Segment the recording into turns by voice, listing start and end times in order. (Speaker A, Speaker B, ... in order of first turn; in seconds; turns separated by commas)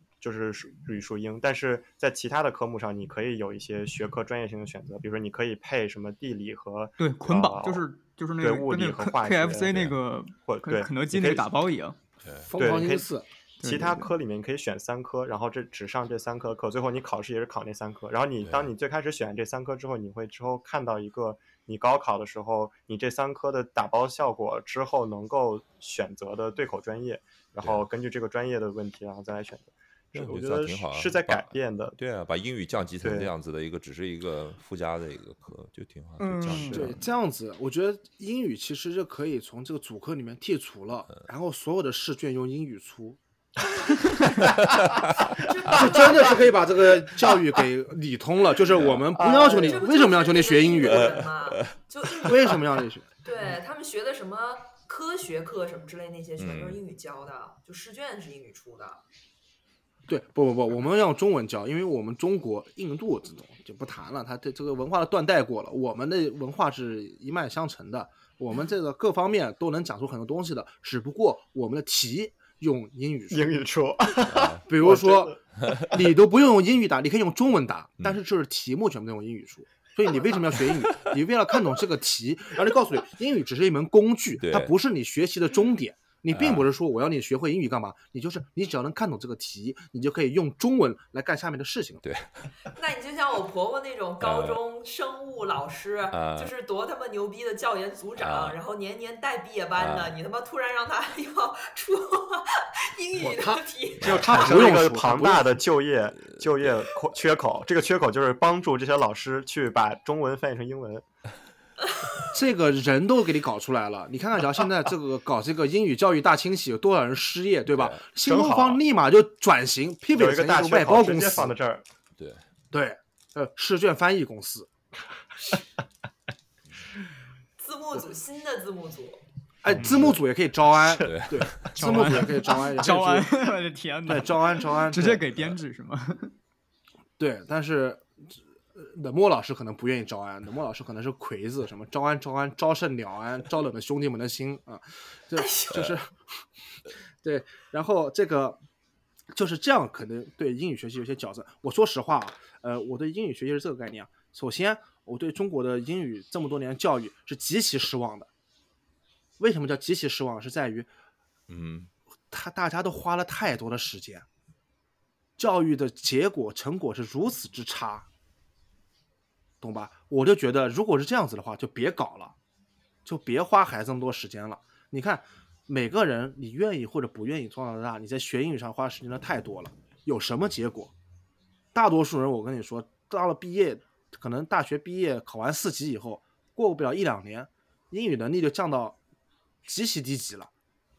Speaker A: 0.2-7.8, Speaker B: 7.0-11.9, Speaker A: 8.4-9.8, Speaker A: 10.4-11.5, Speaker C: 12.4-13.2, Speaker A: 12.6-13.1, Speaker B: 13.6-14.1, Speaker A: 13.6-32.0, Speaker D: 18.4-18.7, Speaker D: 30.1-37.0, Speaker A: 33.0-33.3, Speaker B: 36.2-36.9, Speaker C: 36.6-43.2, Speaker D: 44.6-45.3, Speaker E: 45.3-46.6, Speaker C: 45.7-51.2, Speaker D: 48.7-49.1, Speaker A: 49.2-49.8, Speaker E: 49.5-52.6, Speaker D: 50.8-52.3, Speaker C: 52.2-53.1, Speaker E: 53.2-59.0, Speaker D: 56.4-56.8, Speaker C: 60.1-73.5, Speaker A: 73.3-75.4, Speaker D: 74.2-74.6, Speaker C: 74.7-92.0, Speaker D: 84.4-84.7, Speaker D: 86.3-86.7, Speaker D: 92.0-92.5, Speaker E: 92.7-104.3, Speaker D: 94.2-94.6, Speaker D: 96.1-96.5, Speaker D: 98.2-98.6, Speaker D: 99.7-100.2, Speaker C: 103.2-105.5, Speaker A: 104.0-111.0, Speaker D: 106.3-106.8, Speaker E: 112.0-112.2, Speaker C: 112.3-121.5, Speaker D: 117.7-118.0, Speaker A: 118.2-118.8, Speaker A: 120.1-121.8, Speaker D: 122.2-122.4, Speaker C: 122.7-124.7, Speaker E: 127.6-129.2, Speaker C: 129.6-133.4, Speaker D: 129.7-130.2, Speaker D: 131.0-131.7, Speaker B: 131.7-136.3, Speaker C: 134.1-135.2, Speaker C: 137.2-146.2, Speaker E: 145.3-145.7, Speaker C: 146.7-148.6, Speaker C: 149.3-158.3, Speaker C: 159.4-160.9, Speaker D: 161.5-161.9, Speaker C: 162.3-164.2, Speaker C: 165.4-168.1, Speaker C: 169.6-172.3, Speaker C: 173.0-180.9, Speaker C: 181.7-189.0, Speaker C: 189.6-190.5